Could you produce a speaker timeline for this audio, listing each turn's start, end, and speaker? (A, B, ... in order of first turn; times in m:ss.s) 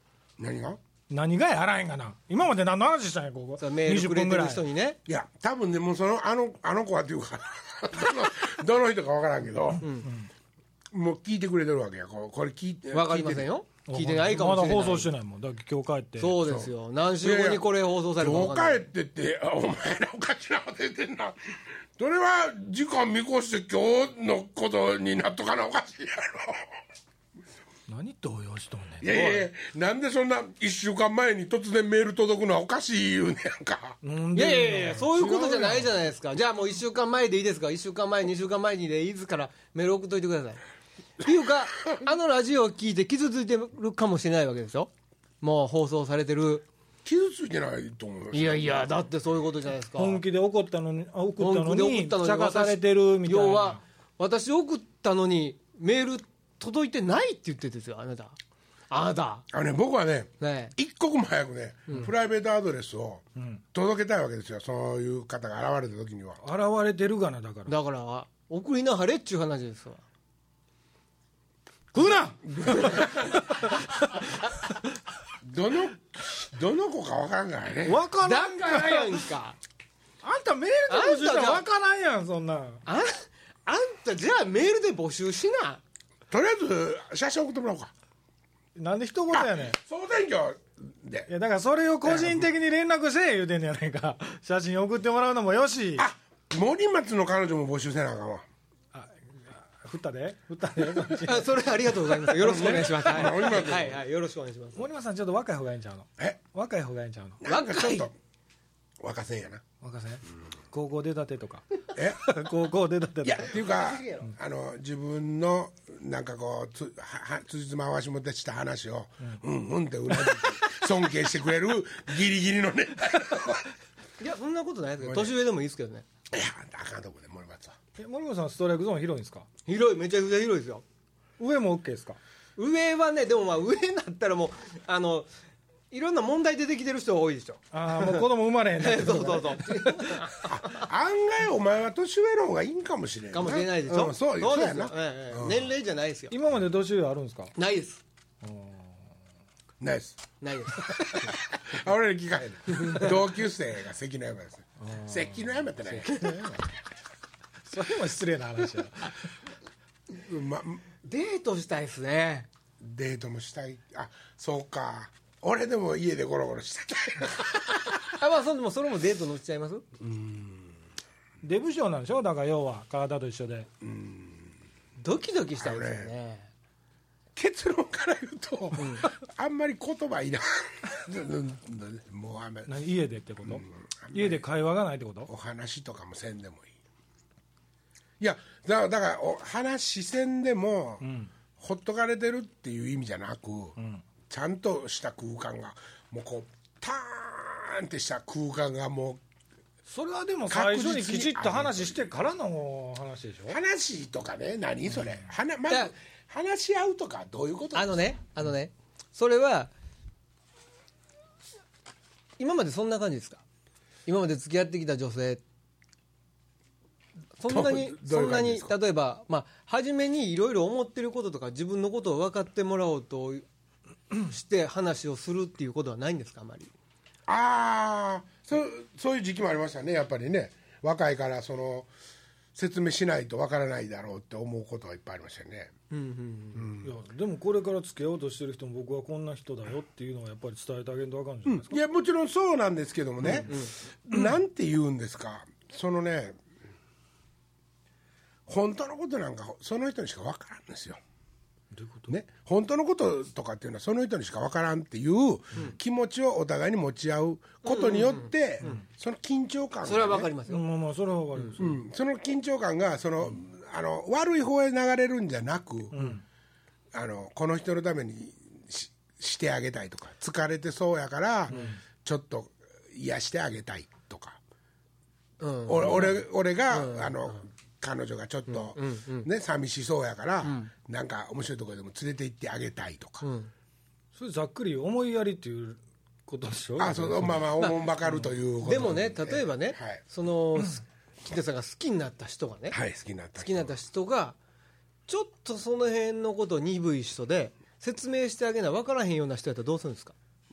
0:00.4-0:00.8 A
0:01.1-0:04.6 B
0:03.6-0:05.0 C
0:05.1-0:09.8 A
0:09.8-0:10.1 C
0:10.9-0:13.5 A
0:12.9-0:15.1 C
0:13.9-0:16.4 B
0:16.2-0:18.8 C
0:16.4-0:21.4 A
0:21.9-0:26.6 A
0:27.9-0:29.4 B
0:29.0-0:34.0 A
0:34.0-0:35.9 B
0:34.3-0:40.6 C
0:41.2-0:46.6 C
0:47.0-0:48.9 A
0:48.3-0:50.2 C
0:50.0-0:53.8 B
0:51.4-0:58.4 C
0:58.9-0:59.4 C
0:59.5-1:06.4 A
1:00.4-1:00.7 C
1:03.4-1:03.6 B
1:06.4-1:07.7 B
1:07.7-1:10.0 C
1:11.9-1:14.2 B
1:12.5-1:13.4 A
1:15.4-1:18.0 A
1:17.8-1:19.2 B
1:18.2-1:19.6 C
1:20.2-1:22.8 B
1:20.9-1:21.6 C
1:22.8-1:25.8 C
1:26.3-1:27.9 A
1:28.8-1:29.8 B
1:29.3-1:31.3 A
1:31.3-1:36.0 B
1:32.0-1:32.4 A
1:36.0-1:38.4 A
1:38.9-1:41.5 B
1:41.2-1:44.8 C
1:42.4-1:44.0 A
1:42.4-1:42.8 B
1:44.8-1:47.4 B
1:47.4-1:48.1 A
1:47.4-1:48.1 C
1:49.0-1:49.6 A
1:49.8-1:53.6 B
1:51.9-1:52.3 A
1:53.2-2:03.7 A
1:53.6-1:54.3 C
2:04.2-2:06.0 C
2:05.0-2:05.3 A
2:06.3-2:07.8 A
2:08.0-2:09.5 B
2:09.7-2:10.8 C
2:11.4-2:12.2 B
2:12.6-2:15.3 C
2:15.9-2:18.3 C
2:17.7-2:20.1 B
2:18.8-2:20.9 C
2:20.4-2:25.7 A
2:23.3-2:26.3 C
2:26.3-2:27.5 B
2:27.6-2:28.0 C
2:28.4-2:28.9 B
2:29.8-2:30.2 A
2:30.4-2:31.4 C
2:30.8-2:36.1 A
2:32.7-2:33.1 C
2:34.8-2:35.3 B
2:35.9-2:36.5 C
2:36.2-2:36.6 B
2:37.6-2:39.3 B
2:40.2-2:40.8 A
2:41.0-2:42.5 C
2:42.8-2:48.2 A
2:48.1-2:49.8 C
2:50.0-2:50.7 A
2:51.4-2:53.7 B
2:53.8-2:54.5 A
2:55.0-2:56.5 C
2:55.6-2:56.1 A
2:57.3-3:02.7 A
2:58.8-2:59.1 C
3:02.7-3:05.3 B
3:03.4-3:04.4 A
3:05.3-3:06.7 A
3:08.2-3:11.0 A
3:11.0-3:11.3 B
3:11.6-3:13.8 A
3:13.8-3:14.0 B
3:14.3-3:19.2 A
3:19.9-3:23.6 B
3:20.5-3:22.0 A
3:23.5-3:28.0 A
3:27.7-3:29.7 C
3:32.4-3:33.4 C
3:34.0-3:35.4 C
3:37.4-3:43.4 C
3:37.5-3:38.7 A
3:44.1-3:46.7 C
3:47.3-3:51.9 A
3:52.5-3:55.7 A
3:55.9-3:56.7 C
3:56.5-3:56.9 A
3:56.8-4:01.8 B
4:01.4-4:06.4 A
4:03.2-4:03.7 C
4:08.5-4:11.0 A
4:11.7-4:12.1 B
4:12.1-4:20.3 A
4:17.6-4:18.8 C
4:19.8-4:20.6 C
4:20.5-4:21.8 B
4:21.6-4:26.1 A
4:25.9-4:26.2 B
4:26.9-4:34.4 A
4:31.5-4:31.8 B
4:35.4-4:37.4 C
4:35.6-4:43.2 A
4:38.5-4:39.3 C
4:40.4-4:40.7 C
4:43.2-4:43.5 C
4:44.1-4:47.5 B
4:46.8-4:50.0 A
4:47.6-4:47.9 C
4:48.6-4:52.8 C
4:52.7-4:53.7 A
4:53.4-4:54.4 C
4:55.1-5:00.1 C